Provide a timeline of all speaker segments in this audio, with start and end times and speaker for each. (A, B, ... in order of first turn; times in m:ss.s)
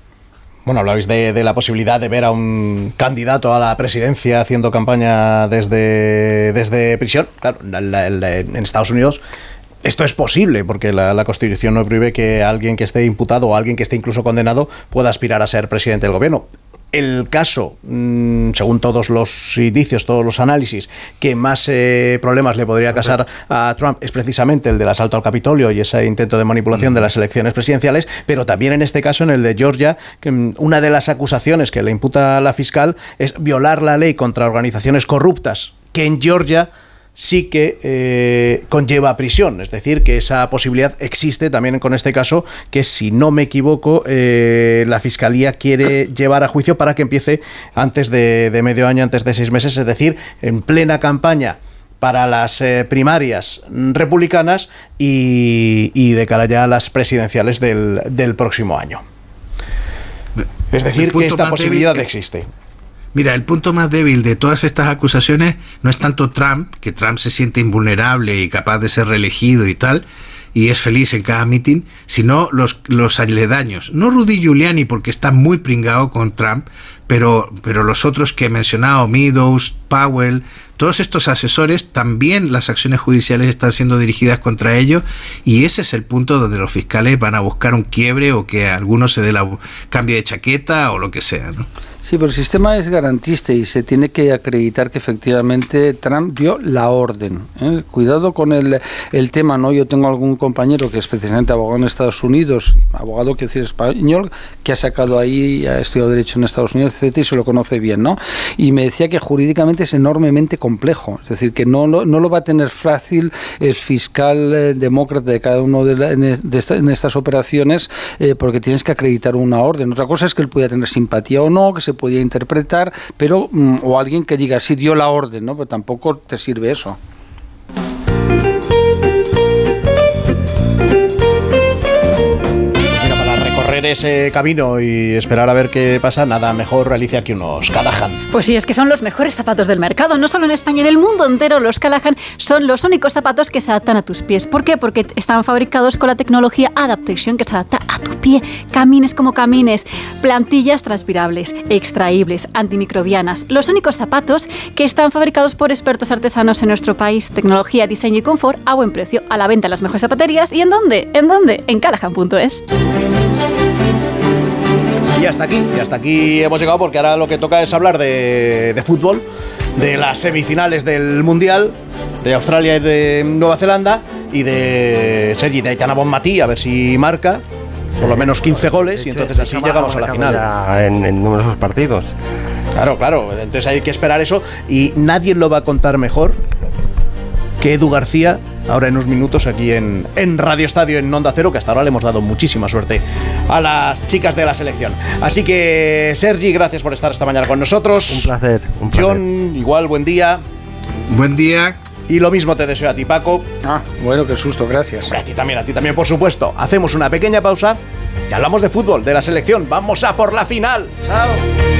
0:00.6-0:09.2 A
0:09.8-0:59.0 A
1:00.4-1:02.0 B
1:00.7-1:02.4 A
1:03.1-1:31.7 B
1:32.0-2:07.0 C
2:13.0-2:18.2 A
2:18.3-2:42.6 D
2:45.2-2:49.2 A
2:49.8-2:57.4 A
2:57.9-3:02.1 E
2:58.0-3:00.4 A
3:02.8-3:06.4 A
3:07.6-3:18.3 A
3:18.1-3:19.2 E
3:18.9-3:20.4 A
3:21.1-3:21.8 B
3:22.1-3:23.4 A
3:23.6-3:25.1 C
3:25.0-3:31.4 A